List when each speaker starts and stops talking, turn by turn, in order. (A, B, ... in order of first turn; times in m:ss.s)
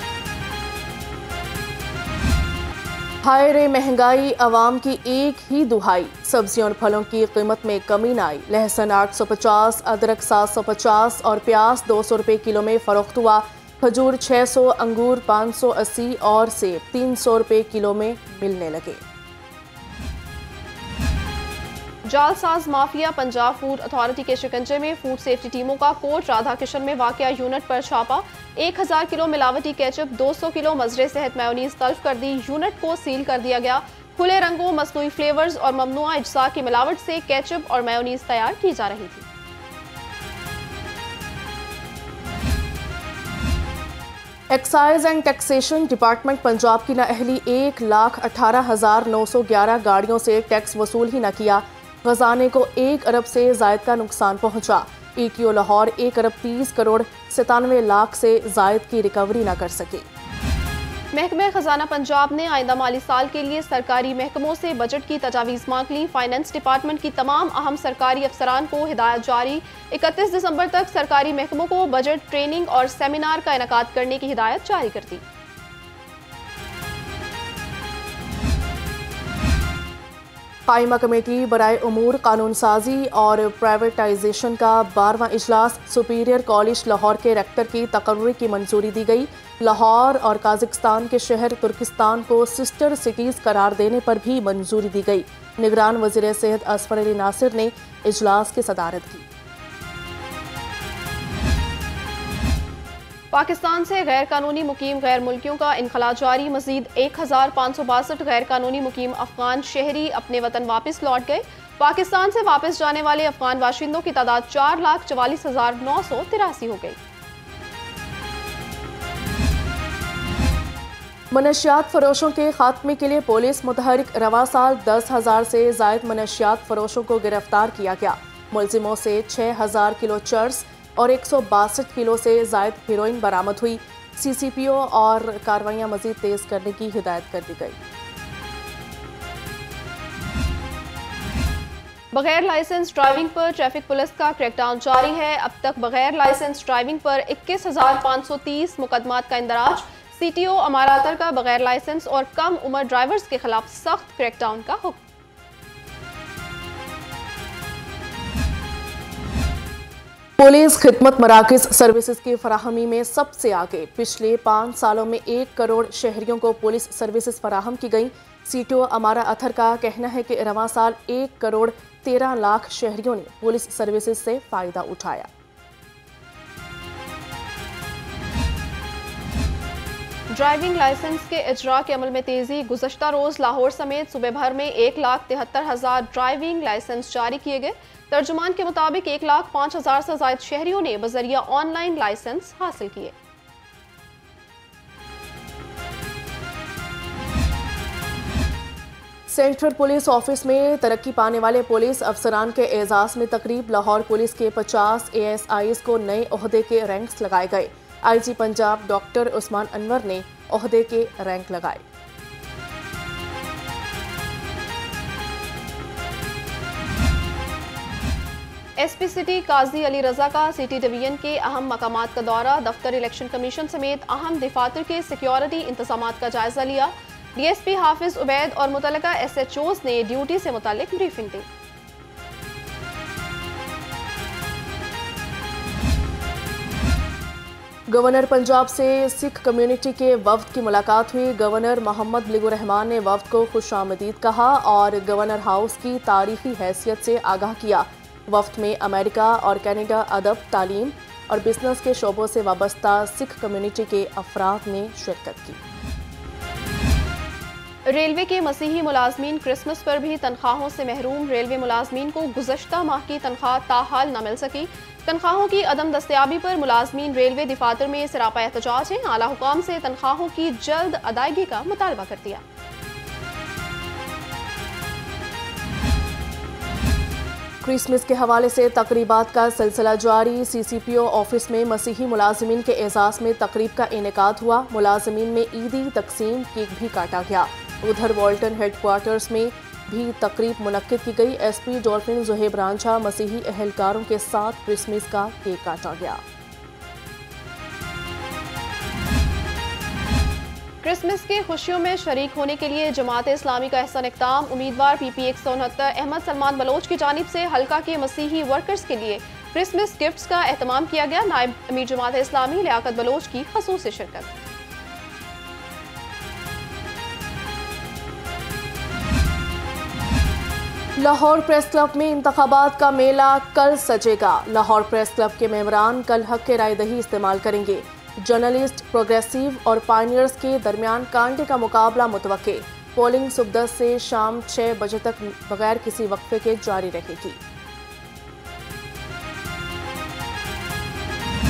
0:03.2-0:19.0 A
0:22.0-0:39.2 B
0:44.5-1:00.0 A
1:01.1-1:15.2 B
1:20.7-1:39.3 A
1:43.3-1:57.0 B
2:01.3-2:17.8 A
2:22.1-2:35.0 B
2:40.4-2:55.3 A
3:00.3-3:13.1 B
3:19.3-3:31.8 A
3:38.8-3:51.5 B
3:57.9-4:15.6 A
4:17.9-4:32.4 B
4:37.6-4:56.2 A
5:00.8-5:14.3 B
5:21.0-5:37.4 A